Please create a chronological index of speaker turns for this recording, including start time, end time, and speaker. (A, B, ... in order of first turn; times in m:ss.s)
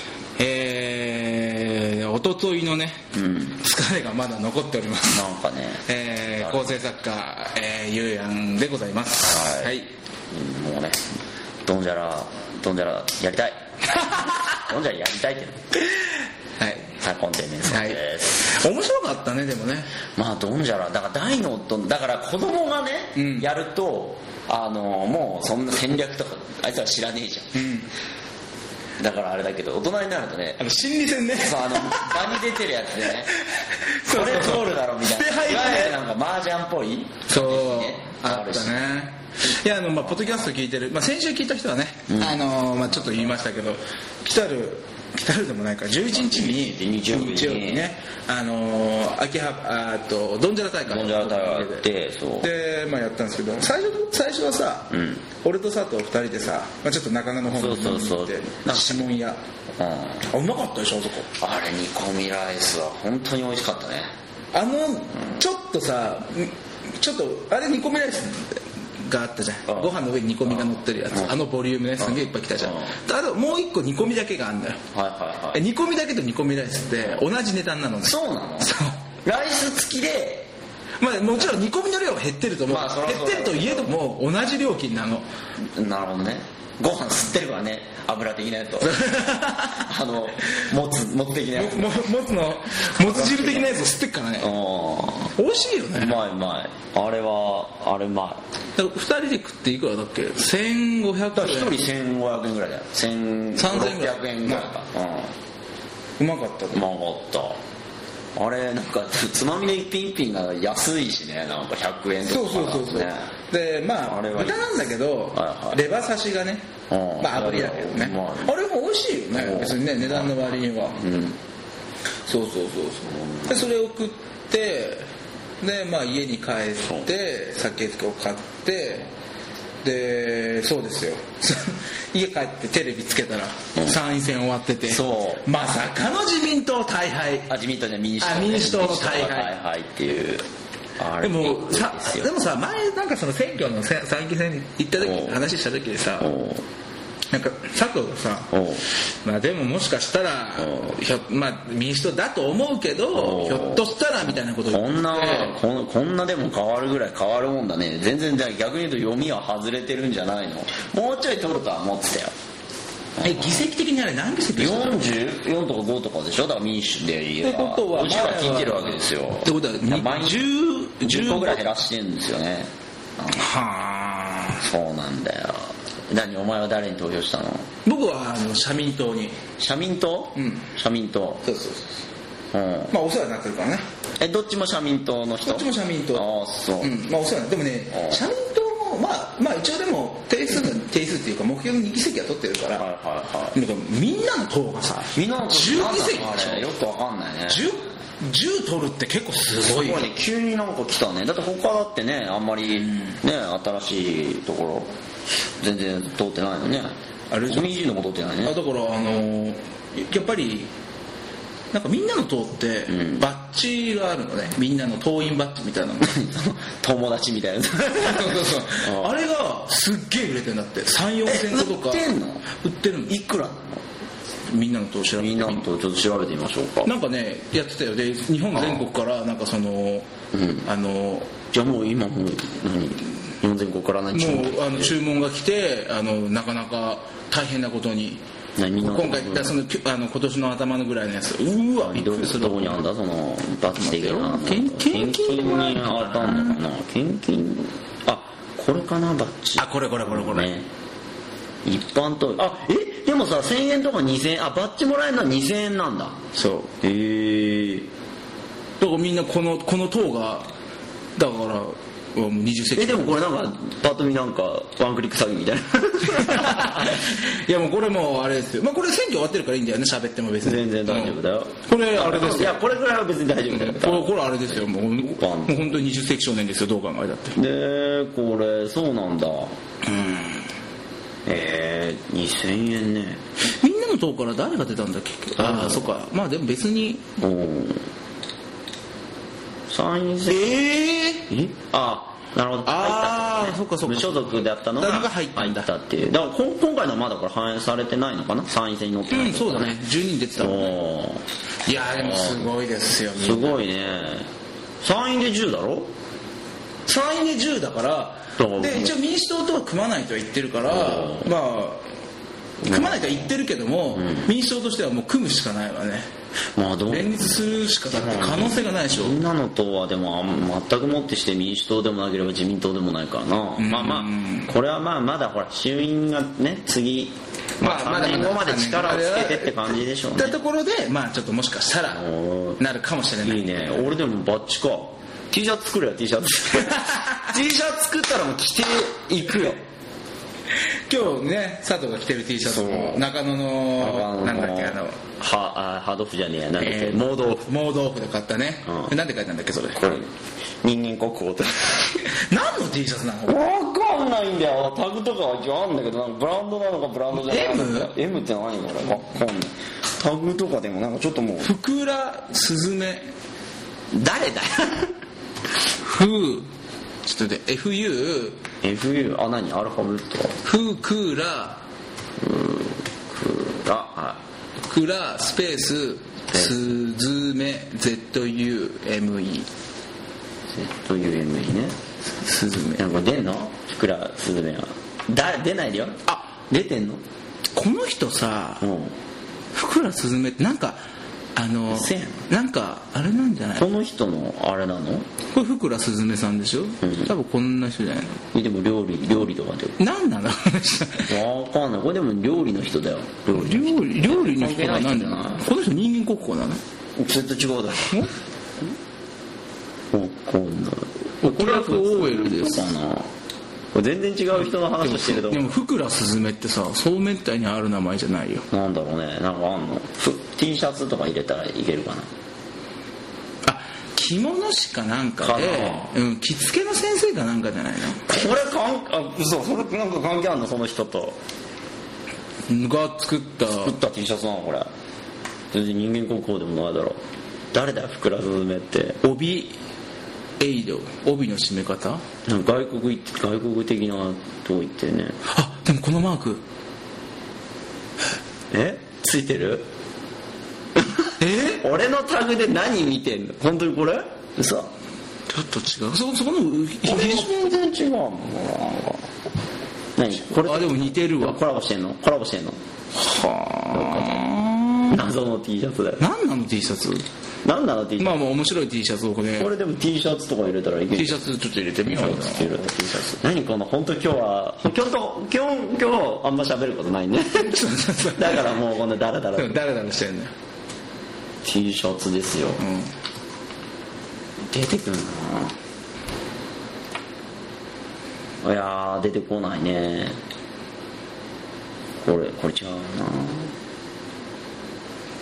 0:00.4-0:05.2 A
0:03.1-0:03.6 B
0:05.1-0:05.8 B
0:05.9-0:09.9 A
0:06.4-0:06.8 B
0:09.2-0:09.8 B
0:10.3-0:13.6 B
0:13.9-0:14.6 A
0:14.5-0:15.6 B
0:16.6-0:16.9 A
0:17.0-0:18.5 B
0:17.7-0:19.9 A
0:20.2-0:27.7 B
0:23.2-0:23.5 A
0:27.6-0:27.9 A
0:29.0-0:30.6 B
0:30.6-0:32.5 A
0:31.4-0:33.3 B
0:33.3-0:36.0 A
0:34.1-0:38.8 B
0:37.3-0:51.9 A
0:42.1-0:42.4 B
0:46.0-0:47.8 B
0:50.9-0:52.5 B
0:52.4-0:59.4 A
0:54.9-0:55.2 B
0:57.5-0:59.1 B
0:59.8-1:00.3 B
1:00.2-1:01.3 A
1:01.4-1:04.1 B
1:04.5-1:14.8 A
1:09.7-1:10.0 B
1:10.5-1:11.4 B
1:12.0-1:12.9 B
1:14.9-1:15.6 B
1:15.5-1:19.0 A
1:18.0-1:18.7 B
1:19.2-1:20.5 B
1:21.0-1:25.3 A
1:22.7-1:23.9 B
1:25.6-1:29.0 B
1:28.8-1:29.9 A
1:29.7-1:31.9 B
1:31.5-1:34.5 A
1:33.0-1:33.7 B
1:34.4-1:35.4 B
1:35.4-1:36.2 A
1:36.0-1:38.4 B
1:38.8-1:41.8 A
1:41.3-1:45.4 B
1:43.6-1:44.7 A
1:46.2-1:46.9 A
1:46.7-1:47.6 B
1:48.4-1:53.3 B
1:52.2-1:56.7 A
1:54.1-1:54.6 B
1:55.3-1:55.8 B
1:56.9-1:58.5 B
1:57.2-2:01.0 A
1:59.3-2:00.4 B
2:01.0-2:01.4 B
2:02.3-2:05.1 A
2:03.1-2:03.7 B
2:05.6-2:09.1 A
2:09.8-2:17.5 A
2:14.9-2:15.4 B
2:17.5-2:22.3 B
2:18.2-2:19.6 A
2:21.2-2:26.3 A
2:25.0-2:25.4 B
2:26.2-2:26.6 B
2:27.3-2:28.6 A
2:28.5-2:28.8 B
2:29.2-2:35.6 A
2:33.1-2:33.8 B
2:34.6-2:42.4 B
2:43.2-2:43.7 B
2:43.2-2:45.1 A
2:44.6-2:50.5 B
2:47.4-2:51.7 A
2:51.0-2:53.4 B
2:53.3-2:54.6 A
2:54.6-2:57.7 B
2:57.8-2:59.4 A
2:59.6-3:01.4 B
3:00.4-3:00.7 A
3:01.4-3:01.9 A
3:02.5-3:02.9 B
3:02.9-3:03.8 A
3:04.2-3:06.9 B
3:05.4-3:06.3 A
3:06.8-3:12.9 A
3:07.9-3:08.2 B
3:12.8-3:13.6 B
3:13.5-3:16.7 A
3:15.0-3:17.7 B
3:17.5-3:20.0 A
3:19.6-3:26.9 B
3:22.8-3:23.2 A
3:27.3-3:27.8 A
3:27.5-3:28.6 B
3:28.4-3:30.7 A
3:31.7-3:36.2 A
3:32.9-3:33.3 B
3:36.0-3:39.2 B
3:38.0-3:43.2 A
3:41.2-3:42.4 B
3:43.1-3:43.8 B
3:44.5-3:45.7 A
3:45.2-3:46.9 B
3:46.8-3:50.1 A
3:50.3-3:50.7 B
3:50.6-3:51.4 A
3:51.5-3:55.0 B
3:54.1-3:58.2 A
3:58.6-3:59.6 B
3:58.8-4:02.8 A
4:01.8-4:10.7 B
4:03.7-4:06.6 A
4:09.6-4:10.5 A
4:11.6-4:16.2 B
4:16.3-4:16.7 A
4:16.8-4:17.9 B
4:18.8-4:20.5 A
4:21.2-4:23.2 A
4:22.8-4:27.2 B
4:26.0-4:32.6 A
4:30.4-4:35.7 B
4:33.5-4:37.4 A
4:37.4-4:39.6 B
4:39.8-4:40.5 A
4:41.2-4:43.2 B
4:43.4-4:47.1 A
4:45.4-4:45.9 B
4:47.2-4:47.8 B
4:49.7-4:50.6 B
4:50.3-4:51.3 A
4:51.3-4:59.8 B
4:52.6-4:55.7 A
4:59.1-5:00.8 A
5:00.4-5:01.2 B
5:01.6-5:03.6 A
5:02.0-5:02.5 B
5:03.2-5:04.3 B
5:04.8-5:05.9 B
5:06.9-5:11.9 A
5:08.4-5:09.0 B
5:10.7-5:11.3 B
5:12.6-5:13.3 B
5:12.7-5:16.1 A
5:14.0-5:14.3 B
5:16.6-5:30.4 B
5:16.9-5:19.2 A
5:23.6-5:24.5 A
5:27.6-5:32.0 A
5:31.9-5:32.6 B
5:32.6-5:33.7 A
5:33.2-5:39.6 B
5:36.6-5:37.3 A
5:40.7-5:45.0 A
5:42.4-5:43.1 B
5:43.8-5:47.5 B
5:46.6-5:50.0 A
5:48.7-5:48.9 B
5:49.7-5:52.0 B
5:52.1-5:53.4 A
5:53.3-6:01.5 B
5:57.1-5:58.0 A
6:01.4-6:03.1 A
6:03.9-6:04.9 B
6:05.8-6:06.5 A
6:07.0-6:08.4 A
6:08.6-6:10.4 B
6:10.4-6:11.6 A
6:12.2-6:14.2 B
6:14.6-6:19.5 A
6:16.3-6:16.7 B
6:20.5-6:21.8 B
6:22.2-6:22.8 A
6:22.7-6:27.0 B
6:26.1-6:26.4 A
6:27.5-6:28.7 A
6:28.6-6:29.0 B
6:29.6-6:30.8 A
6:31.4-6:33.7 A
6:31.7-6:32.3 B
6:33.6-6:35.1 B
6:35.3-6:38.2 A
6:36.8-6:37.1 B
6:38.3-6:39.8 B
6:39.8-6:41.2 A
6:41.1-6:45.4 B
6:43.3-6:46.6 A
6:47.0-6:48.0 B
6:49.9-6:53.1 B
6:51.2-6:52.6 A
6:53.7-6:55.5 B
6:54.4-6:58.4 A
6:58.5-7:02.1 B
7:03.4-7:08.1 A
7:05.2-7:05.9 B
7:08.0-7:11.2 B
7:12.5-7:13.8 A
7:13.5-7:14.7 B
7:15.5-7:19.0 B
7:19.0-7:19.6 A
7:20.4-7:22.0 A
7:22.2-7:25.2 B
7:25.3-7:26.4 A
7:28.5-7:29.7 B
7:30.8-7:34.7 B
7:31.2-7:31.6 A
7:35.3-7:37.3 A
7:36.8-7:39.1 B
7:40.0-7:42.6 B
7:40.3-7:41.4 A
7:42.9-7:45.0 A
7:43.7-7:44.2 B
7:44.9-7:46.0 B
7:46.0-7:47.1 A
7:47.4-7:48.2 B
7:48.0-7:49.5 A
7:49.4-7:51.2 B
7:50.9-7:52.6 A
7:51.8-7:57.6 B
7:57.4-7:58.6 A
7:58.2-7:59.6 B
7:59.4-8:00.3 A
8:01.4-8:02.6 B
8:02.6-8:02.9 A
8:04.5-8:05.6 B
8:08.4-8:10.2 B
8:12.0-8:13.5 B